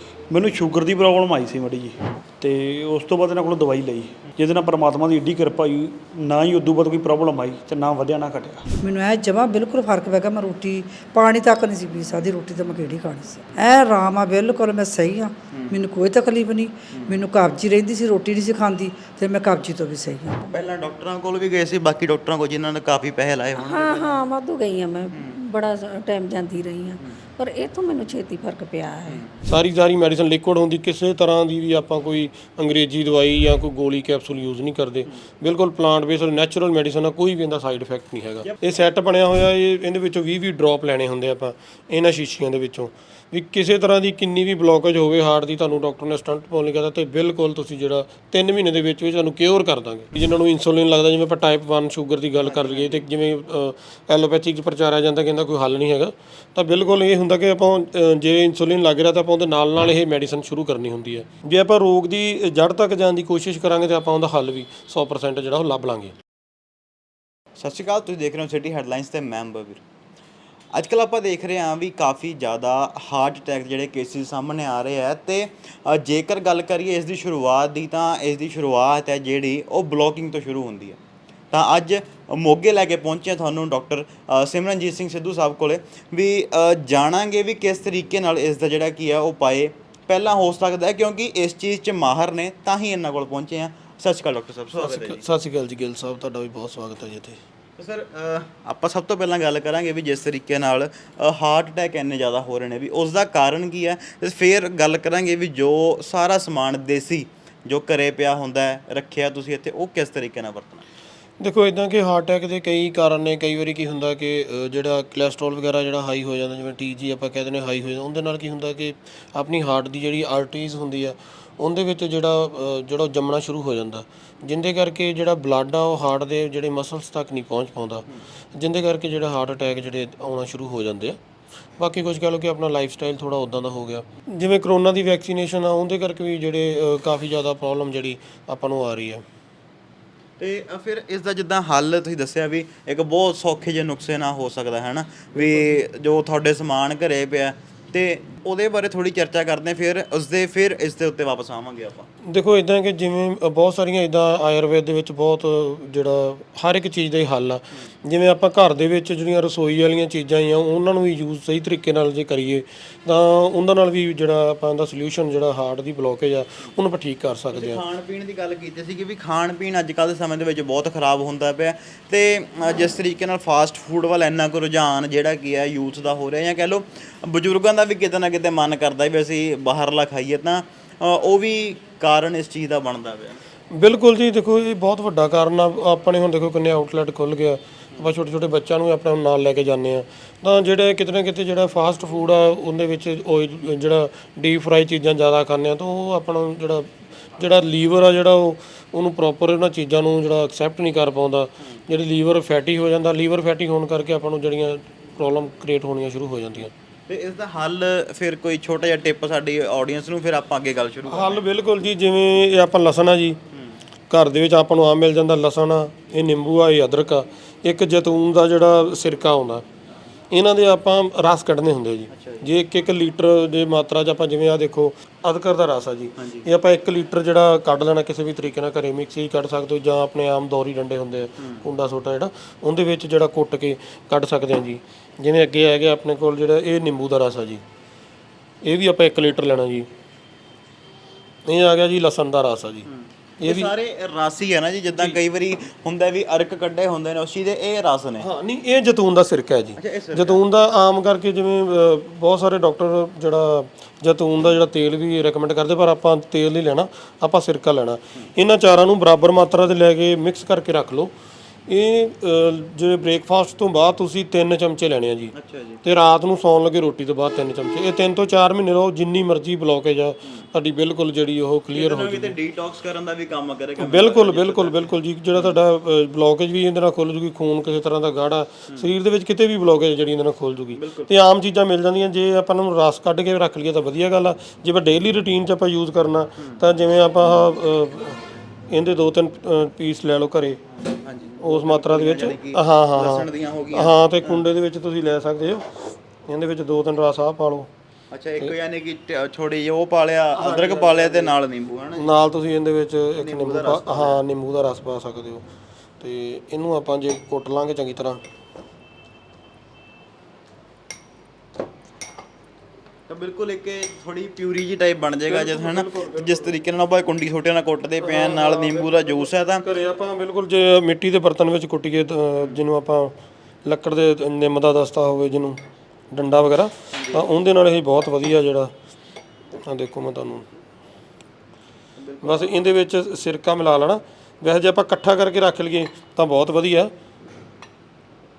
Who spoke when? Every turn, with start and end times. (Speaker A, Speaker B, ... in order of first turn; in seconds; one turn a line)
Speaker A: 0.3-8.6
Speaker B: 8.8-20.4
Speaker C: 15.5-15.8
Speaker C: 16.9-17.2
Speaker C: 20.5-24.2
Speaker D: 23.6-29.2
Speaker C: 25.1-25.4
Speaker E: 29.4-66.1
Speaker C: 52.4-53.0
Speaker C: 67.6-69.8
Speaker C: 70.7-81.0
Speaker C: 81.5-95.2
Speaker E: 94.7-97.4
Speaker C: 97.8-110.8
Speaker E: 111.4-131.2
Speaker E: 131.8-139.2
Speaker C: 140.4-152.1
Speaker E: 152.3-167.8
Speaker C: 167.5-183.4
Speaker E: 183.7-206.7
Speaker C: 207.1-211.4
Speaker E: 211.1-213.4
Speaker E: 214.1-219.6
Speaker E: 220.3-237.6
Speaker C: 222.1-222.5
Speaker C: 226.2-226.5
Speaker C: 231.4-231.6
Speaker E: 238.6-239.9
Speaker E: 241.4-242.9
Speaker C: 242.9-248.3
Speaker E: 243.4-243.7
Speaker E: 248.2-261.1
Speaker C: 249.8-250.4
Speaker E: 261.7-265.3
Speaker C: 265.3-265.8
Speaker E: 265.8-272.3
Speaker C: 271.7-275.6
Speaker E: 273.8-290.6
Speaker C: 280.7-281.1
Speaker C: 290.9-294.4
Speaker E: 291.4-297.7
Speaker C: 298.1-302.1
Speaker E: 300.3-301.3
Speaker E: 302.0-305.4
Speaker C: 303.2-304.2
Speaker E: 306.0-308.2
Speaker C: 313.1-319.6
Speaker E: 315.3-316.5
Speaker E: 318.0-323.1
Speaker E: 323.6-325.6
Speaker E: 326.1-328.7
Speaker C: 326.9-327.3
Speaker E: 329.6-330.5
Speaker C: 331.9-332.6
Speaker E: 332.2-336.9